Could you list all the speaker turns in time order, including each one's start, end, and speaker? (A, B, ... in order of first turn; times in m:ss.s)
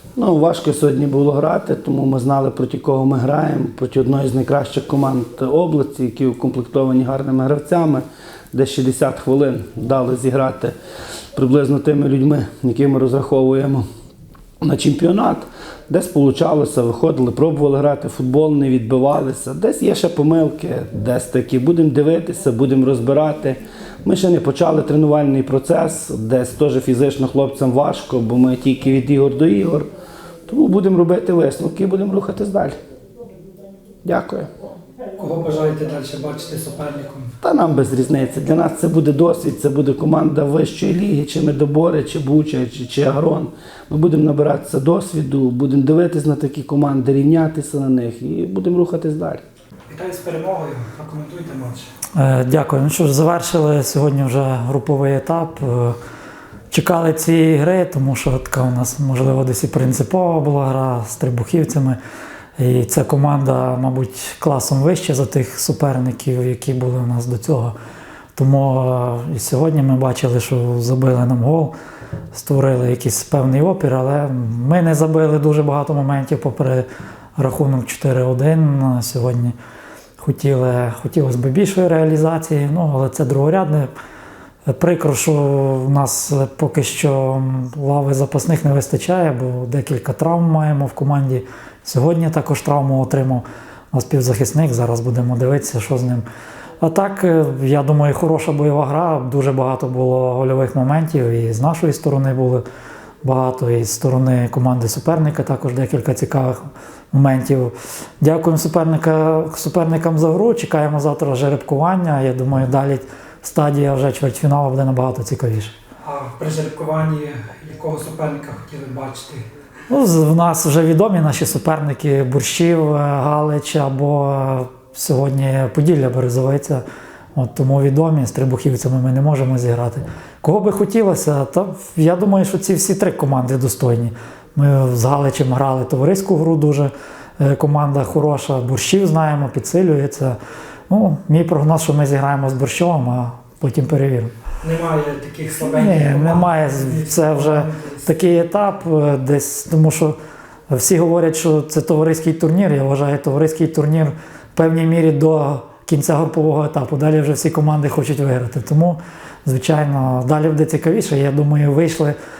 0:00.2-0:10.7 A
0:11.3-0:13.8 A
0:14.6-0:29.9 A
0:30.5-0:32.8 A
0:34.0-0:34.5 A
0:35.2-0:37.3 B
0:37.4-0:49.4 A
0:49.9-0:51.9 B
0:52.2-0:56.0 C
0:56.7-1:02.0 C
1:02.6-1:07.7 C
1:08.4-1:11.7 C
1:12.3-1:16.8 C
1:17.4-1:19.5 C
1:20.2-1:23.9 C
1:24.7-1:36.2 C
1:36.8-1:42.6 C
1:43.2-1:55.7 C
1:56.0-1:59.4 B
1:59.9-2:06.8 C
2:07.3-2:20.4 C
2:20.9-2:24.3 C
2:24.6-2:28.1 B
2:25.6-2:30.1 C
2:30.7-2:42.1 C